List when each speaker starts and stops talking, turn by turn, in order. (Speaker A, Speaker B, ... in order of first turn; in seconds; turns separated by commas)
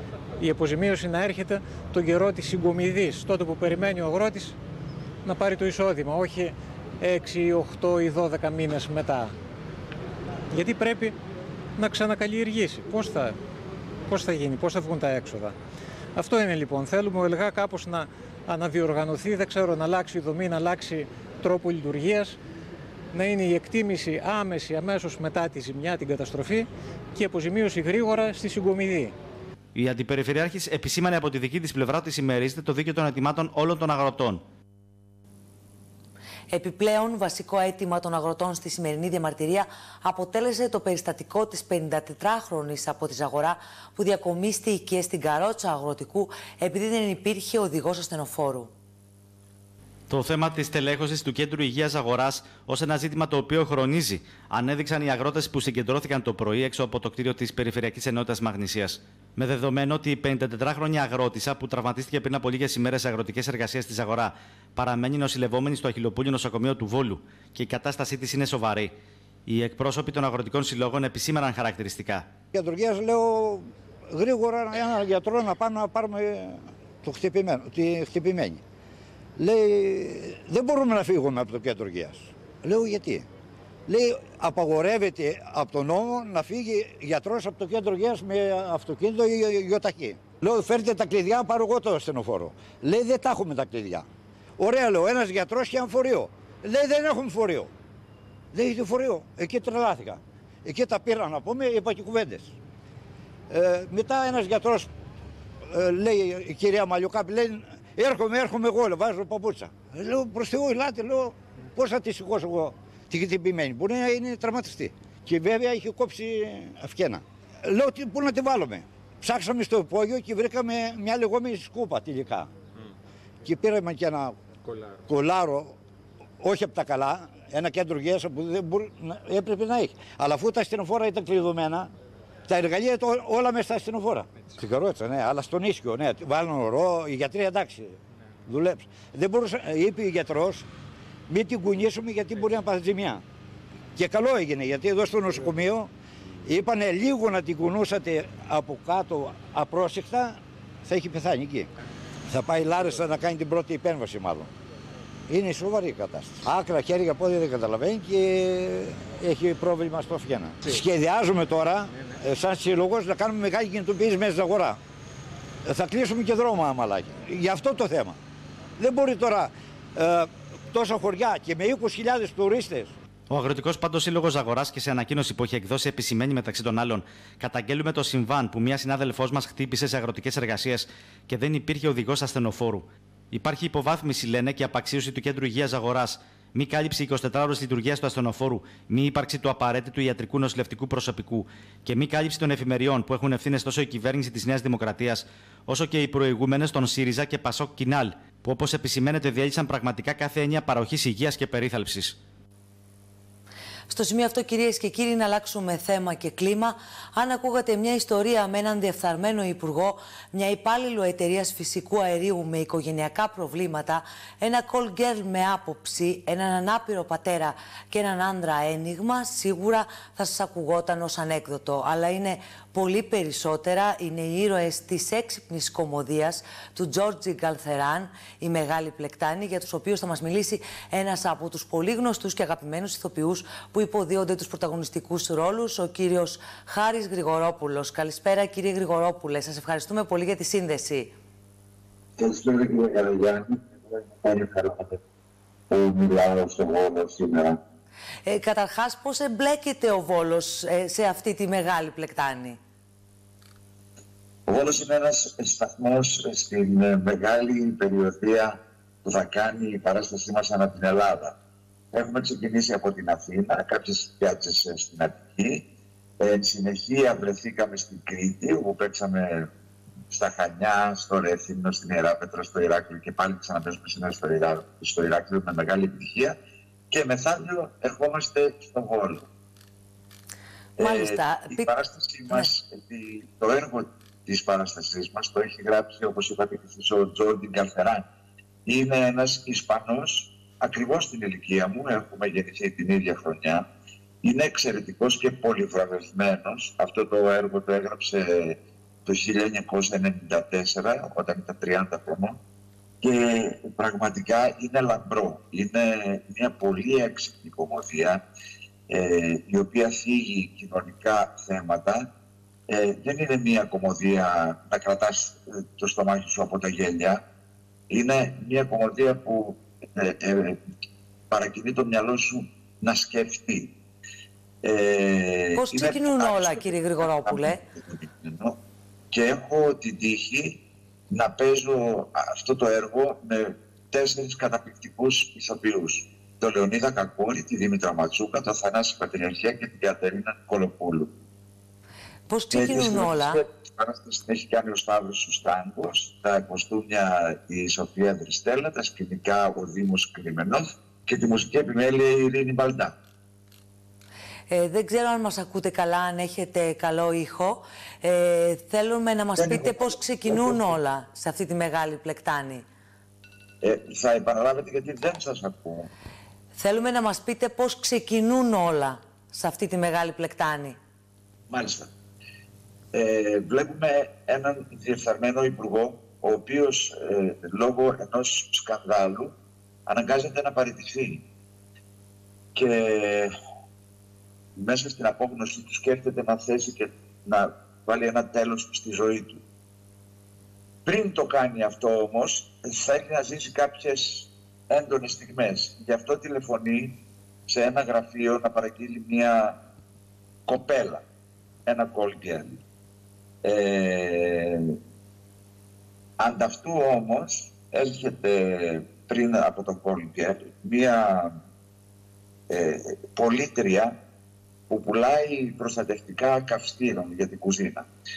Speaker A: 0.4-4.5, Speaker A: 5.2-9.3, Speaker A: 10.5-11.1, Speaker A: 11.8-13.4, Speaker A: 14.1-15.5, Speaker A: 16.1-22.4, Speaker A: 23.1-29.1, Speaker B: 29.7-34.4, Speaker C: 36.5-48.7, Speaker B: 50.1-68.9, Speaker B: 69.5-72.3, Speaker D: 72.5-78.6, Speaker D: 79.4-83.2, Speaker D: 83.9-94.0, Speaker D: 94.6-97.7, Speaker D: 98.5-102.5, Speaker D: 103.5-104.9, Speaker D: 105.7-122.5, Speaker D: 123.4-124.3, Speaker D: 125.0-125.8, Speaker D: 126.4-131.9, Speaker D: 132.5-140.7, Speaker D: 141.3-143.2, Speaker D: 143.9-145.9, Speaker D: 146.4-151.7, Speaker D: 152.3-154.5, Speaker D: 155.3-164.8, Speaker D: 165.7-168.2, Speaker D: 168.8-172.9, Speaker B: 173.3-202.2, Speaker C: 203.9-241.1, Speaker E: 242.2-245.0, Speaker E: 245.7-247.6, Speaker C: 248.2-252.6, Speaker E: 254.5-261.3, Speaker E: 261.9-265.6, Speaker E: 266.2-269.5, Speaker E: 270.1-276.4, Speaker E: 276.9-279.2, Speaker C: 280.8-281.7, Speaker E: 280.8-288.1, Speaker E: 288.6-293.6, Speaker E: 294.2-302.4, Speaker E: 303.0-308.2, Speaker E: 308.9-312.1, Speaker E: 312.7-317.2, Speaker E: 317.9-320.6, Speaker E: 321.3-323.7, Speaker E: 324.6-328.6, Speaker C: 325.6-327.6, Speaker E: 329.1-330.6, Speaker E: 331.1-341.1, Speaker C: 342.3-343.4, Speaker E: 342.5-352.9, Speaker C: 354.5-362.6, Speaker E: 359.4-360.7, Speaker E: 363.6-365.9, Speaker C: 366.6-370.8, Speaker E: 371.5-371.9, Speaker E: 372.9-379.3, Speaker E: 379.9-381.2, Speaker E: 382.5-383.3, Speaker E: 384.6-389.4, Speaker E: 390.9-397.0, Speaker E: 397.5-399.6, Speaker E: 400.5-401.0, Speaker E: 401.6-402.6, Speaker E: 403.4-404.8, Speaker E: 406.2-411.3, Speaker E: 412.5-413.9, Speaker E: 414.7-417.9